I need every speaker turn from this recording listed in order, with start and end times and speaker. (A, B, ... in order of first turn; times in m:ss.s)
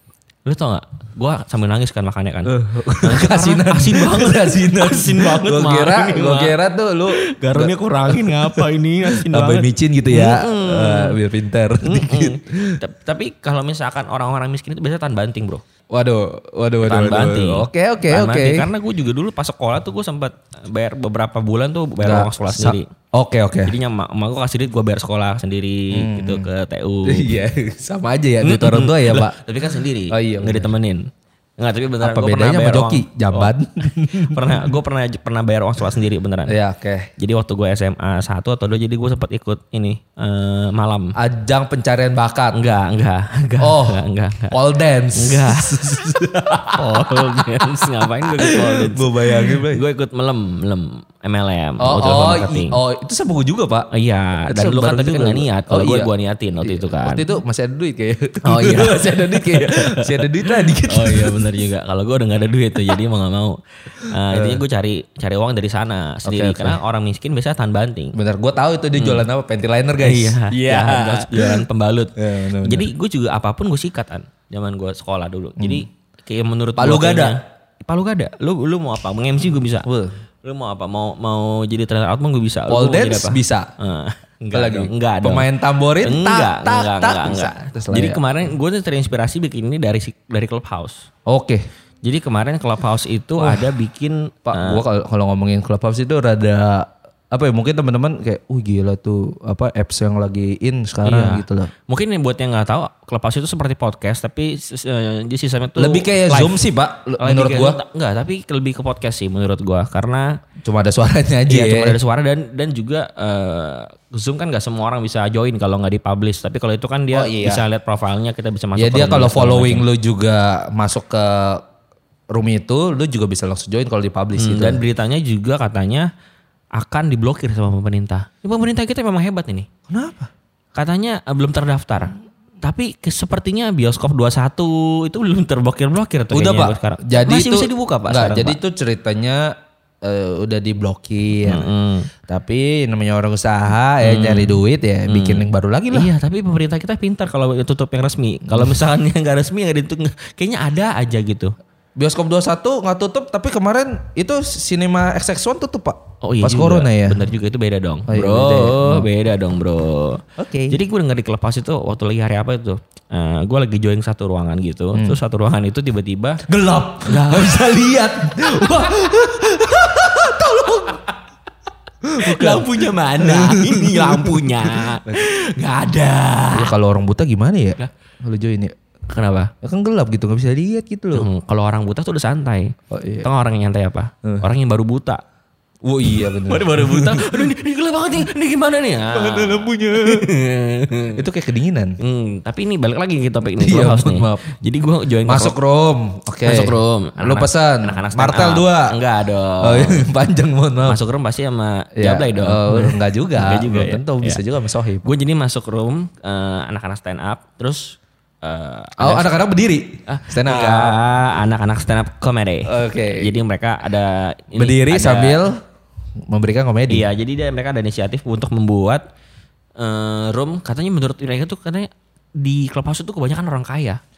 0:00.4-0:06.6 A
0:02.4-0:12.8 B
0:07.2-0:11.2 A
0:11.8-0:15.6 A
0:15.9-0:18.7 B
0:16.8-0:22.9 A
0:22.0-0:23.7 B
0:23.6-0:27.3 A
0:25.9-0:26.5 B
0:27.0-0:29.4 B
0:28.4-0:36.6 A
0:30.1-0:30.7 B
0:32.0-0:34.7 B
0:36.5-0:37.1 B
0:37.2-0:41.1 A
0:41.2-0:42.6 B
0:42.5-0:44.6 A
0:43.6-0:47.2 B
0:45.2-0:46.0 A
0:46.8-0:52.7 A
0:48.4-0:49.8 B
0:51.8-0:53.9 B
0:53.9-0:57.2 A
0:54.5-0:56.1 B
0:56.6-1:01.4 B
0:58.4-1:08.1 A
1:04.3-1:04.6 B
1:06.2-1:06.8 B
1:08.1-1:11.6 B
1:08.9-1:09.2 A
1:10.0-1:19.9 A
1:12.2-1:12.9 B
1:15.6-1:15.8 B
1:16.8-1:17.4 B
1:19.8-1:20.1 B
1:20.4-1:25.5 A
1:22.7-1:23.7 B
1:24.5-1:28.2 B
1:26.0-1:31.0 A
1:31.3-1:31.6 B
1:32.0-1:34.8 A
1:33.4-1:33.6 B
1:34.4-1:41.7 B
1:41.0-1:46.6 A
1:45.8-1:47.8 B
1:47.2-1:50.4 A
1:50.6-1:52.0 B
1:51.5-1:59.8 A
1:57.1-1:57.6 B
1:58.8-2:01.6 B
2:02.3-2:04.8 B
2:04.4-2:06.1 A
2:06.8-2:09.7 A
2:09.9-2:10.3 B
2:10.7-2:18.6 A
2:16.3-2:21.7 B
2:21.4-2:22.1 A
2:22.3-2:26.1 B
2:24.0-2:31.5 A
2:32.0-2:37.2 B
2:36.2-2:46.4 A
2:38.1-2:39.1 B
2:40.4-2:40.8 B
2:46.5-2:51.0 B
2:47.0-2:47.8 A
2:48.6-2:48.9 A
2:49.8-2:51.0 A
2:52.0-2:55.2 B
2:52.2-2:56.7 A
2:56.5-2:58.7 B
2:59.1-2:59.5 A
2:59.6-3:01.3 B
3:01.1-3:05.2 A
3:02.9-3:03.3 B
3:05.8-3:07.5 B
3:06.1-3:11.3 A
3:09.1-3:10.3 B
3:11.1-3:12.0 B
3:12.0-3:15.5 A
3:13.6-3:14.5 B
3:15.2-3:18.9 B
3:16.4-3:20.1 A
3:19.6-3:21.0 B
3:20.8-3:24.4 A
3:21.9-3:25.1 B
3:25.0-3:29.3 A
3:29.0-3:31.0 B
3:30.1-3:35.4 A
3:32.6-3:33.3 B
3:34.5-3:35.6 B
3:36.3-3:37.1 B
3:36.9-3:39.0 A
3:39.8-3:44.0 A